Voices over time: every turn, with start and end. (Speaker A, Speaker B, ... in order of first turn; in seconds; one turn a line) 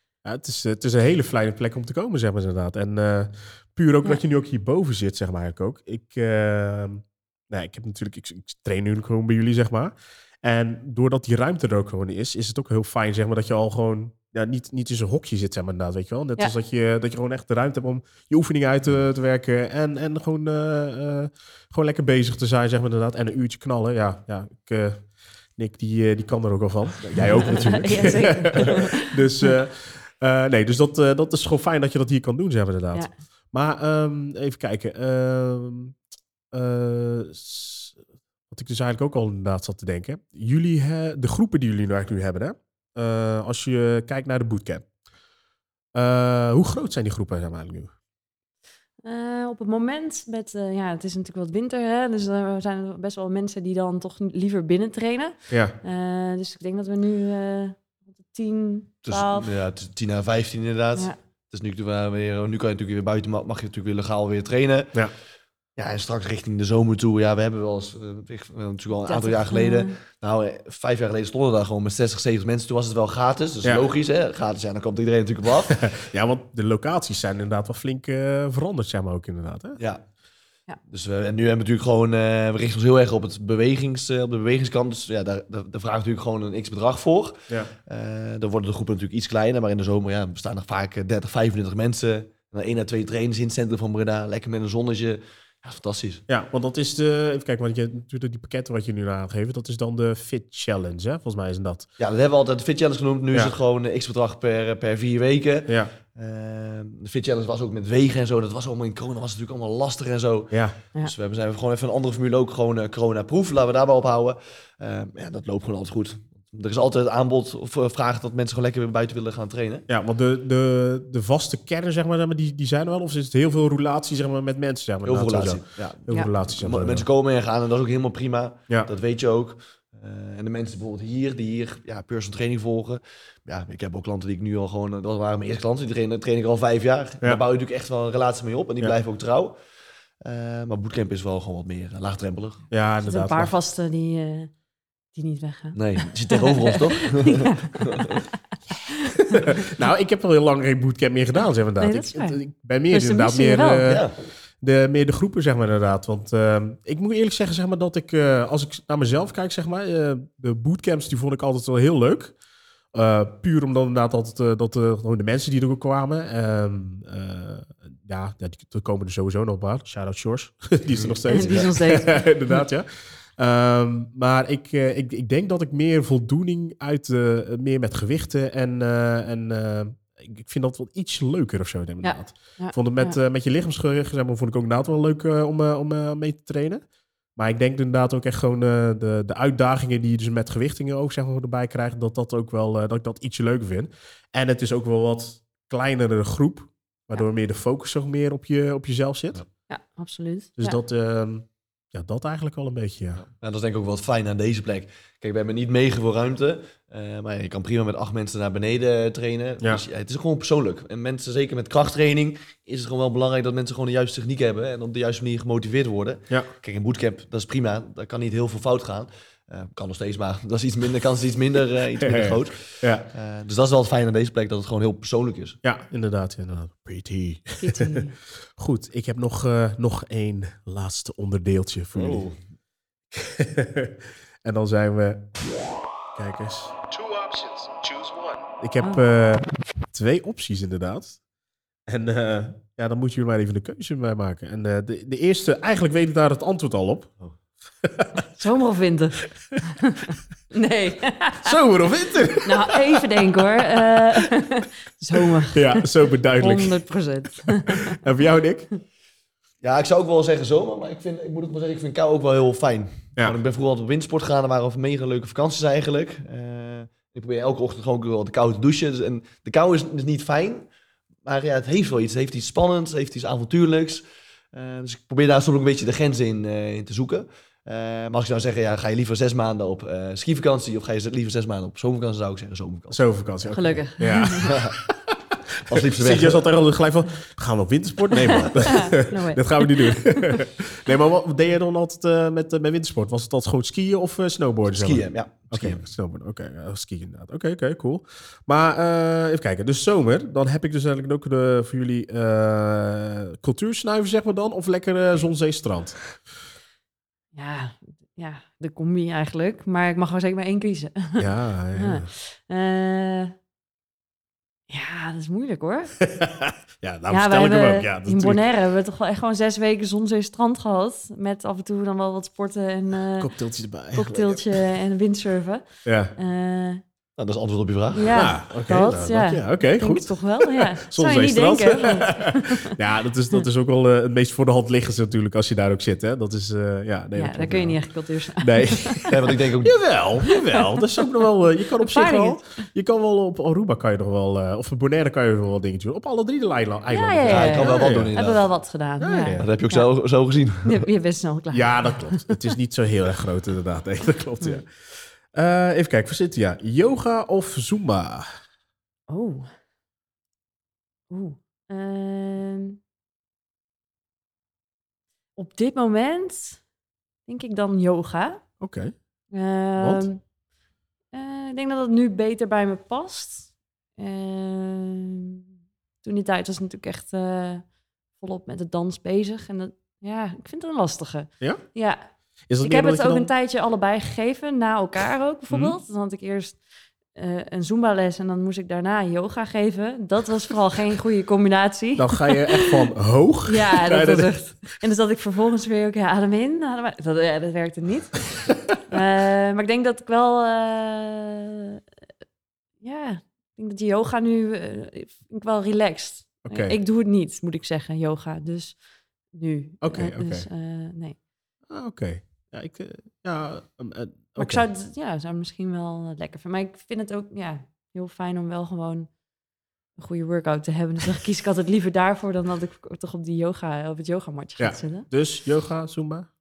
Speaker A: 0.2-25.1
Speaker A: 25.6-36.0
Speaker B: 27.4-29.6
Speaker A: 36.5-44.9
Speaker A: 45.9-47.9
Speaker B: 49.0-59.5
Speaker A: 55.5-55.8
Speaker C: 59.1-65.0
Speaker C: 65.8-75.9
Speaker B: 69.0-70.0
Speaker A: 73.6-73.9
Speaker A: 75.7-79.8
Speaker C: 79.8-80.0
Speaker C: 80.9-96.2
Speaker A: 96.3-101.9
Speaker C: 102.0-119.9
Speaker A: 105.7-105.9
Speaker A: 110.5-110.8
Speaker A: 119.9-127.1
Speaker C: 125.1-139.6
Speaker C: 140.2-142.7
Speaker A: 142.7-143.5
Speaker B: 143.0-144.5
Speaker B: 145.2-149.7
Speaker C: 145.8-148.2
Speaker A: 149.2-154.1
Speaker B: 151.8-152.4
Speaker B: 152.9-154.0
Speaker C: 153.8-154.1
Speaker A: 154.6-162.3
Speaker A: 162.9-186.8
Speaker C: 170.9-171.6
Speaker B: 171.3-172.6
Speaker B: 182.0-183.2
Speaker A: 187.4-199.4
Speaker B: 199.7-200.8
Speaker A: 200.6-203.2
Speaker C: 203.2-225.6
Speaker A: 222.0-223.1
Speaker A: 225.6-232.3
Speaker B: 227.6-228.2
Speaker C: 231.9-232.4
Speaker A: 233.1-235.4
Speaker A: 236.2-241.2
Speaker A: 241.9-247.2
Speaker A: 247.8-248.3
Speaker B: 248.3-251.6
Speaker A: 251.4-254.3
Speaker B: 252.4-258.0
Speaker A: 255.2-256.8
Speaker A: 257.5-258.7
Speaker C: 259.6-270.7
Speaker C: 271.2-283.0
Speaker A: 282.9-306.0
Speaker B: 283.5-284.5
Speaker C: 284.4-284.8
Speaker C: 285.6-286.5
Speaker B: 288.2-290.4
Speaker C: 294.7-295.8
Speaker B: 307.4-313.3
Speaker A: 311.2-312.1
Speaker B: 314.7-315.9
Speaker A: 316.0-318.4
Speaker B: 317.1-323.3
Speaker A: 323.2-324.4
Speaker B: 323.9-325.6
Speaker A: 325.9-326.1
Speaker B: 326.2-326.8
Speaker C: 327.2-328.3
Speaker B: 327.9-332.7
Speaker A: 328.1-337.8
Speaker B: 337.2-339.1
Speaker A: 338.4-348.1
Speaker C: 339.1-339.8
Speaker B: 340.3-341.1
Speaker B: 341.8-342.4
Speaker B: 346.9-349.9
Speaker C: 347.3-348.5
Speaker A: 349.0-349.5
Speaker C: 349.4-350.9
Speaker B: 350.6-352.5
Speaker A: 351.5-358.3
Speaker B: 359.1-359.5
Speaker B: 361.1-362.8
Speaker B: 365.4-366.6
Speaker B: 367.3-368.4
Speaker A: 368.6-368.9
Speaker B: 369.3-370.2
Speaker A: 369.8-370.1
Speaker B: 371.1-375.4
Speaker B: 376.0-382.0
Speaker A: 382.5-383.3
Speaker B: 382.6-386.6
Speaker A: 385.5-385.8
Speaker B: 387.1-392.8
Speaker A: 392.0-394.3
Speaker B: 393.5-398.2
Speaker B: 398.9-401.8
Speaker B: 402.8-408.8
Speaker A: 406.4-406.8
Speaker B: 409.3-411.2
Speaker A: 409.8-410.5
Speaker A: 411.7-414.6
Speaker B: 414.4-419.1
Speaker B: 420.0-425.1
Speaker A: 424.6-426.3